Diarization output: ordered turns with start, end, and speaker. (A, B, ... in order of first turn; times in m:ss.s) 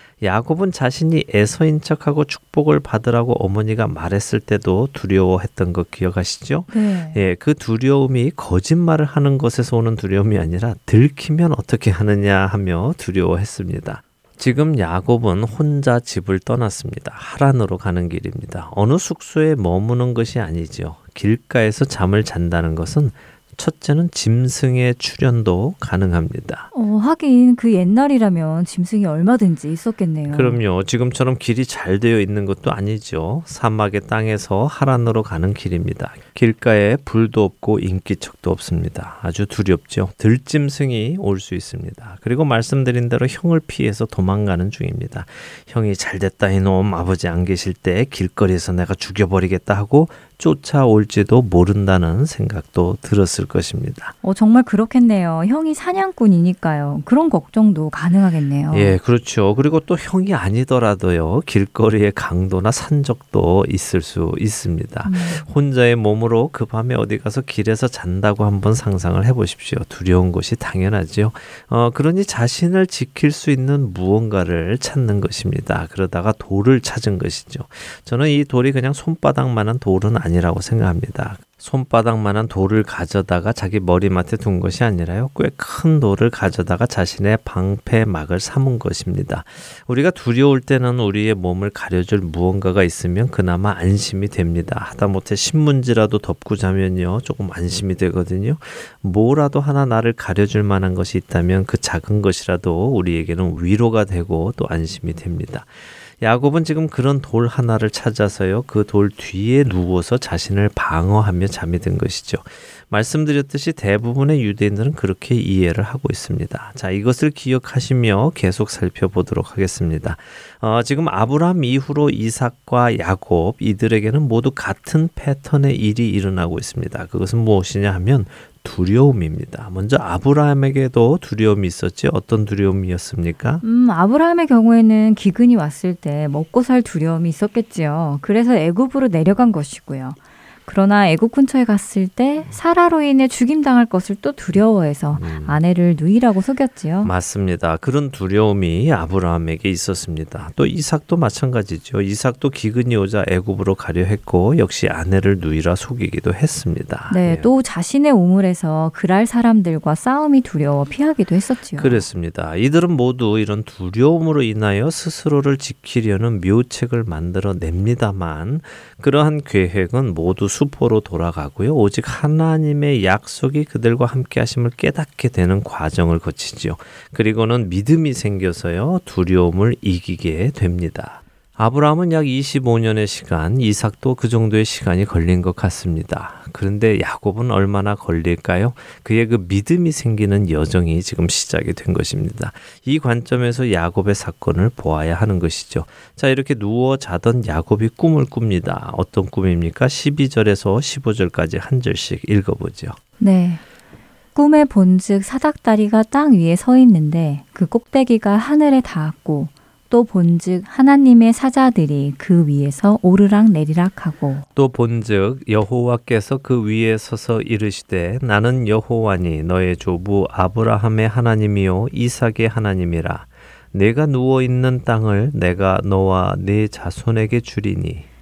0:00.2-0:26.7 A
0:06.7-0:07.2 B
0:26.7-0:30.6 B
0:30.3-0:54.2 A
0:54.2-0:59.0 B
0:58.7-1:45.7 A
1:05.0-1:05.5 B
1:46.2-2:13.6 A
2:13.6-2:27.1 B
2:25.2-2:25.6 A
2:27.0-2:37.5 A
2:37.1-2:42.0 B
2:41.8-3:23.0 A
3:23.2-3:23.6 B
3:24.4-3:34.5 B
3:34.6-3:48.1 A